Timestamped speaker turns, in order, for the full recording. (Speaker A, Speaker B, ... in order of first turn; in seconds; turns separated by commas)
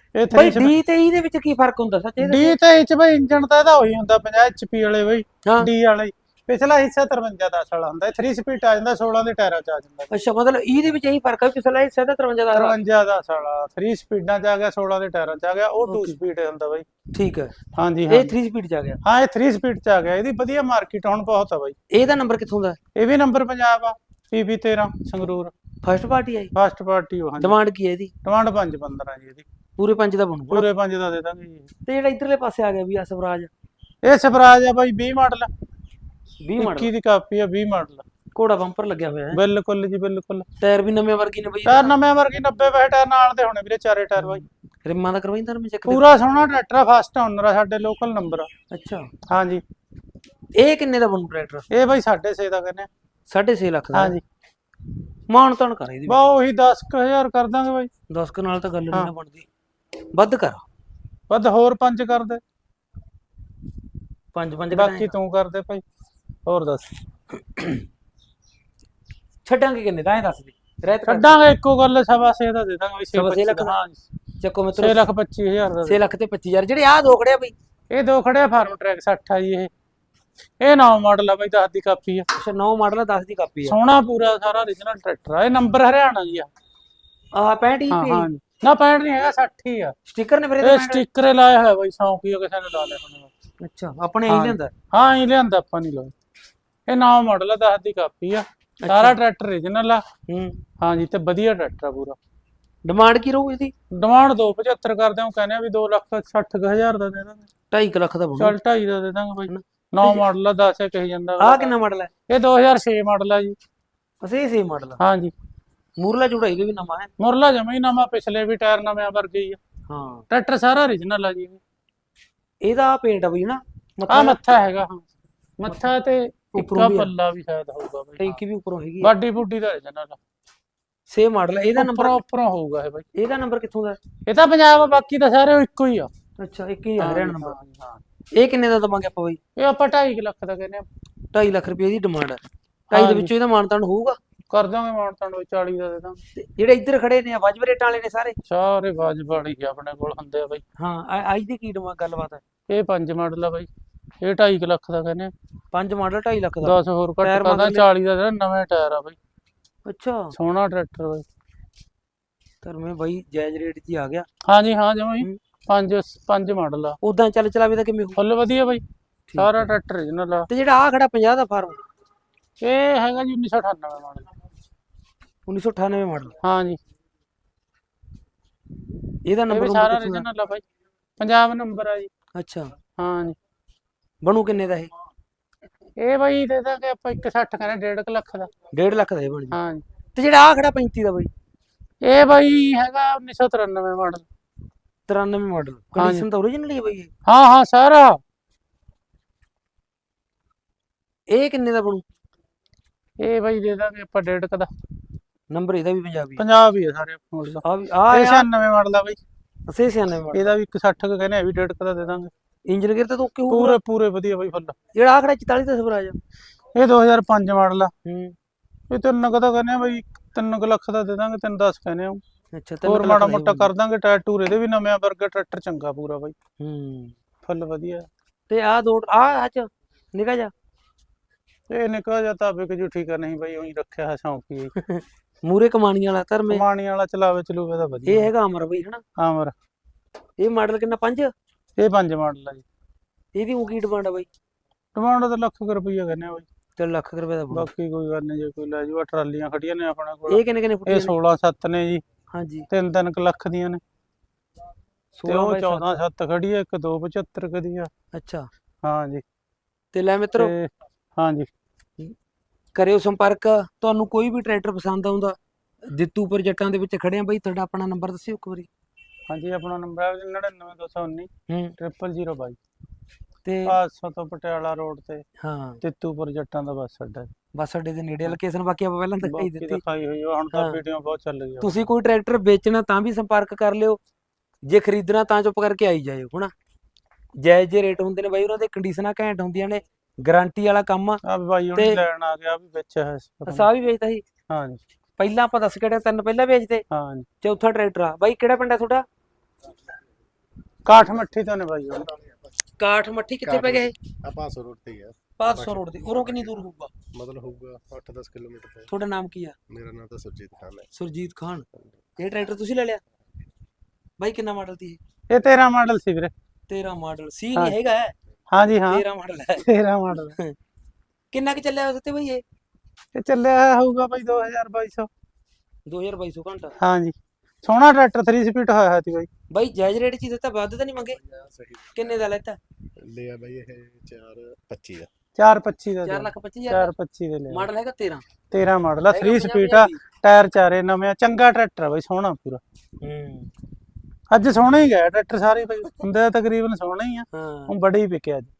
Speaker A: 0.1-0.8, Speaker B: 0.3-2.5, Speaker A: 2.2-10.1, Speaker B: 10.1-12.8, Speaker A: 12.5-16.9, Speaker B: 15.8-16.1, Speaker B: 17.1-17.5, Speaker A: 17.8-18.3, Speaker B: 18.1-19.0, Speaker A: 19.0-21.8, Speaker B: 21.9-22.8, Speaker A: 23.0-25.5, Speaker B: 25.8-26.5, Speaker A: 26.6-27.6, Speaker B: 27.4-28.1, Speaker A: 28.2-29.5, Speaker B: 29.8-30.7, Speaker A: 30.5-31.7, Speaker B: 31.9-33.5, Speaker A: 34.0-35.5, Speaker B: 36.4-36.9, Speaker A: 36.6-38.0, Speaker B: 38.4-39.4, Speaker A: 39.3-40.5, Speaker B: 40.6-41.9, Speaker A: 41.7-44.4, Speaker B: 44.2-46.1, Speaker A: 45.9-48.5, Speaker B: 48.7-49.1, Speaker A: 49.3-49.6, Speaker B: 50.5-51.7, Speaker A: 51.7-52.9, Speaker B: 53.3-54.2, Speaker A: 53.9-54.2, Speaker B: 55.3-56.3, Speaker A: 56.1-57.9, Speaker B: 58.1-59.5, Speaker B: 60.1-60.6, Speaker A: 61.3-62.4, Speaker B: 64.3-65.1, Speaker A: 64.7-65.8, Speaker A: 66.5-67.0, Speaker B: 67.5-67.8, Speaker B: 69.5-71.4, Speaker A: 71.1-74.0, Speaker B: 73.1-73.8, Speaker B: 74.4-75.0, Speaker A: 74.8-76.0, Speaker B: 75.9-77.5, Speaker A: 77.9-79.7, Speaker A: 80.6-82.3, Speaker B: 82.3-83.8, Speaker A: 83.7-86.5, Speaker B: 87.3-88.3, Speaker A: 87.9-89.9, Speaker B: 90.1-91.0, Speaker A: 90.6-93.3, Speaker B: 93.6-94.7, Speaker A: 94.3-96.1, Speaker A: 96.9-100.0, Speaker B: 98.8-99.2, Speaker B: 100.3-100.6, Speaker A: 100.8-102.2, Speaker B: 102.8-103.7, Speaker A: 103.9-107.5, Speaker B: 107.7-108.6, Speaker A: 108.4-111.8, Speaker B: 109.5-110.2, Speaker B: 111.4-112.1, Speaker A: 112.3-113.6, Speaker B: 114.2-115.0, Speaker A: 115.0-115.3, Speaker B: 116.0-117.1, Speaker A: 117.2-119.6, Speaker B: 119.9-120.2, Speaker A: 120.3-121.6, Speaker B: 122.6-124.4, Speaker A: 124.1-125.1, Speaker A: 125.6-128.4, Speaker B: 126.5-127.1, Speaker B: 128.2-129.1, Speaker A: 129.0-130.2, Speaker B: 131.1-132.2, Speaker A: 131.8-133.1, Speaker B: 133.2-134.0, Speaker A: 134.3-136.1, Speaker B: 136.4-137.6, Speaker A: 137.0-138.0, Speaker B: 138.3-139.4, Speaker A: 139.6-140.9, Speaker B: 141.3-144.2, Speaker A: 142.9-143.3, Speaker A: 144.5-146.2, Speaker B: 146.4-148.4, Speaker A: 148.5-150.6, Speaker B: 150.8-152.4, Speaker A: 152.7-153.7, Speaker A: 154.2-155.3, Speaker B: 155.7-157.8, Speaker A: 156.6-159.2, Speaker B: 159.9-160.3, Speaker A: 160.3-161.2, Speaker B: 162.6-164.3, Speaker A: 164.5-167.0, Speaker B: 167.0-168.2, Speaker A: 168.2-168.8, Speaker A: 169.4-170.5, Speaker B: 170.5-171.8, Speaker A: 172.6-174.3, Speaker B: 175.5-176.4, Speaker A: 176.4-176.8, Speaker B: 179.3-180.2, Speaker A: 179.5-180.6, Speaker A: 181.2-182.1, Speaker B: 182.3-182.7, Speaker A: 183.0-183.4, Speaker B: 184.2-184.9, Speaker A: 186.0-188.5, Speaker B: 188.7-189.6, Speaker A: 189.5-189.8, Speaker B: 190.2-191.3, Speaker A: 192.1-194.3, Speaker B: 195.1-197.1, Speaker A: 196.0-196.3, Speaker A: 197.3-198.2, Speaker B: 201.3-202.0, Speaker A: 203.2-204.7, Speaker B: 205.5-206.4, Speaker A: 206.4-209.2, Speaker B: 207.6-208.5, Speaker B: 209.7-210.4, Speaker A: 210.3-212.3, Speaker B: 212.7-213.8, Speaker A: 213.5-214.8, Speaker B: 214.9-216.2, Speaker A: 216.8-217.9, Speaker B: 218.1-218.3, Speaker A: 218.9-222.2, Speaker B: 222.5-223.7, Speaker A: 222.8-226.3, Speaker B: 226.6-227.1, Speaker A: 227.5-228.1, Speaker B: 228.5-230.5, Speaker A: 231.7-234.7, Speaker B: 234.8-236.6, Speaker A: 236.5-238.3, Speaker B: 238.1-239.0, Speaker A: 239.2-239.5, Speaker B: 240.4-241.3, Speaker A: 241.8-242.7, Speaker B: 243.3-244.3, Speaker A: 244.9-246.5, Speaker B: 246.8-247.7, Speaker A: 247.5-252.0, Speaker B: 250.3-251.1, Speaker B: 252.3-252.7, Speaker A: 252.7-253.8, Speaker B: 255.2-256.0, Speaker A: 255.3-257.9, Speaker B: 258.1-258.5, Speaker A: 258.8-259.2, Speaker B: 259.9-260.5, Speaker A: 260.4-261.5, Speaker B: 262.8-268.7, Speaker A: 269.3-272.6, Speaker B: 271.5-271.8, Speaker B: 273.4-273.8, Speaker A: 273.7-275.2, Speaker B: 275.4-275.8, Speaker A: 275.8-277.3, Speaker B: 277.5-279.8, Speaker A: 279.2-281.7, Speaker B: 280.5-280.8, Speaker B: 281.6-284.0, Speaker B: 284.6-286.5, Speaker B: 287.4-291.2, Speaker A: 291.2-293.7, Speaker B: 291.8-292.0, Speaker B: 293.5-294.2, Speaker A: 294.5-294.8, Speaker B: 295.2-296.9, Speaker A: 296.9-297.3, Speaker B: 297.4-299.1, Speaker A: 300.9-302.1, Speaker B: 302.8-303.9, Speaker C: 303.4-306.6, Speaker B: 305.4-306.9, Speaker C: 307.1-308.9, Speaker B: 308.9-309.6, Speaker C: 309.7-310.9, Speaker B: 310.9-311.7, Speaker B: 312.2-313.0, Speaker B: 314.2-315.0, Speaker A: 315.3-316.3, Speaker B: 316.7-318.1, Speaker A: 318.5-319.1, Speaker B: 318.9-319.6, Speaker A: 319.6-320.4, Speaker B: 321.3-322.4, Speaker A: 323.1-325.1, Speaker B: 325.9-326.8, Speaker A: 326.8-329.3, Speaker B: 329.5-331.2, Speaker C: 331.2-332.1, Speaker B: 331.9-332.6, Speaker C: 333.0-335.1, Speaker A: 335.4-337.7, Speaker B: 336.0-336.9, Speaker B: 337.5-338.2, Speaker A: 338.5-342.6, Speaker B: 339.1-340.0, Speaker B: 343.0-343.5, Speaker A: 344.3-348.5, Speaker B: 347.3-347.7